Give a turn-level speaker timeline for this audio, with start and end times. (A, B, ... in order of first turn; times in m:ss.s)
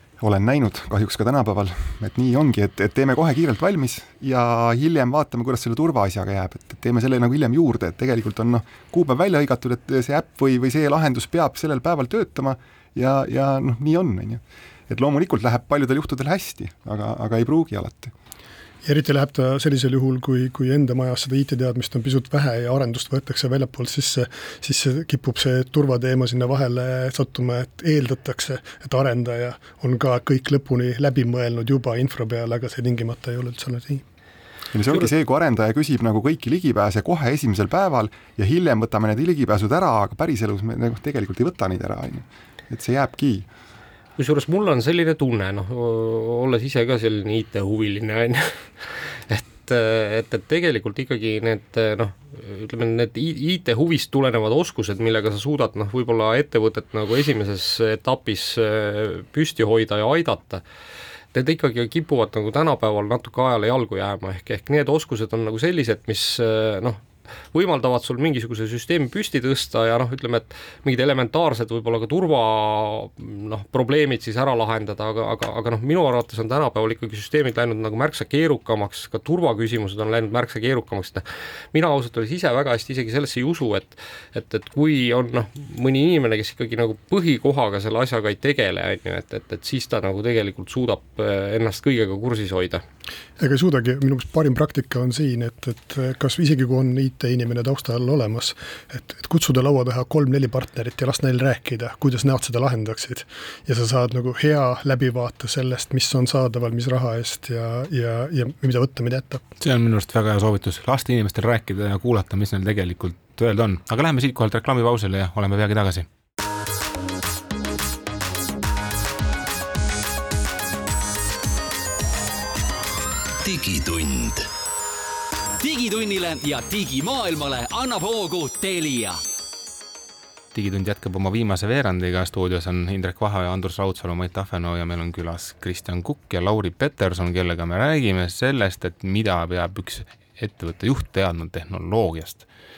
0:00.2-0:18.1 A
0:18.8-0:34.0 B
0:34.7-0:43.5 A
0:44.2-1:00.6 C
1:01.3-1:32.8 C
1:33.4-1:49.4 B
1:49.6-1:56.1 D
2:03.4-2:04.5 E
2:05.6-2:09.2 E
2:10.5-2:22.4 D